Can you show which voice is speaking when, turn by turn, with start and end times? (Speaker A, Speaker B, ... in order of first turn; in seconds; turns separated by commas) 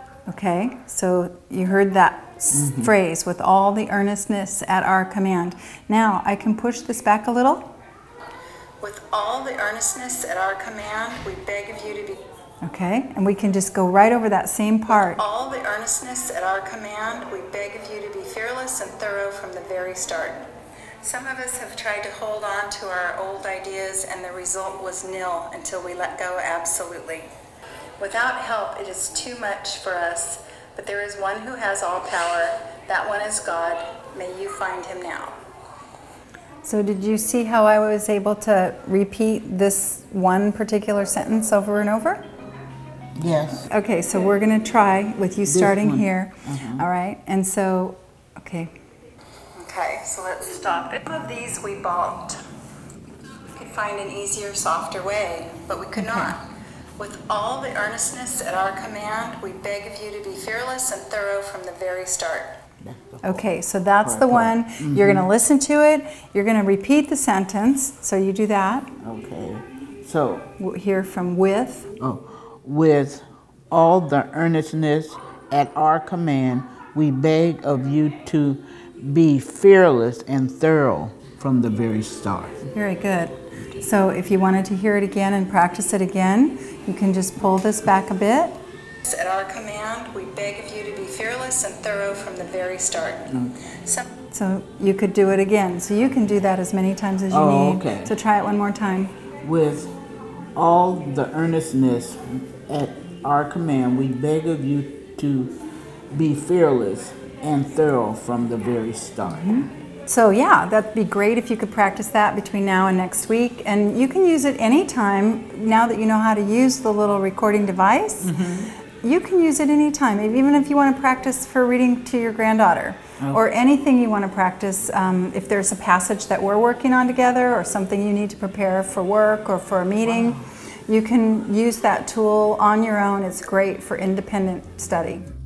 Speaker A: 0.3-7.7, Speaker B: 2.6-2.9, Speaker C: 8.8-12.2, Speaker A: 12.6-15.2, Speaker C: 14.9-20.4, Speaker C: 21.0-27.2, Speaker C: 28.0-34.8, Speaker A: 29.0-29.4, Speaker A: 34.1-35.3, Speaker A: 36.6-42.2, Speaker B: 43.2-43.7, Speaker A: 43.7-48.7, Speaker B: 45.5-46.9, Speaker C: 49.6-52.3, Speaker C: 53.5-56.4, Speaker A: 56.0-56.4, Speaker C: 57.0-62.6, Speaker B: 62.8-63.5, Speaker A: 63.2-68.9, Speaker B: 64.0-65.3, Speaker B: 69.0-70.5, Speaker A: 70.6-71.9, Speaker B: 72.0-82.7, Speaker A: 82.7-88.6, Speaker C: 89.0-93.3, Speaker B: 93.3-93.7, Speaker A: 94.2-99.1, Speaker B: 97.3-98.1, Speaker B: 99.4-100.0, Speaker B: 100.6-105.6, Speaker B: 106.1-109.7, Speaker A: 110.1-118.4, Speaker B: 118.2-118.7, Speaker A: 119.0-135.3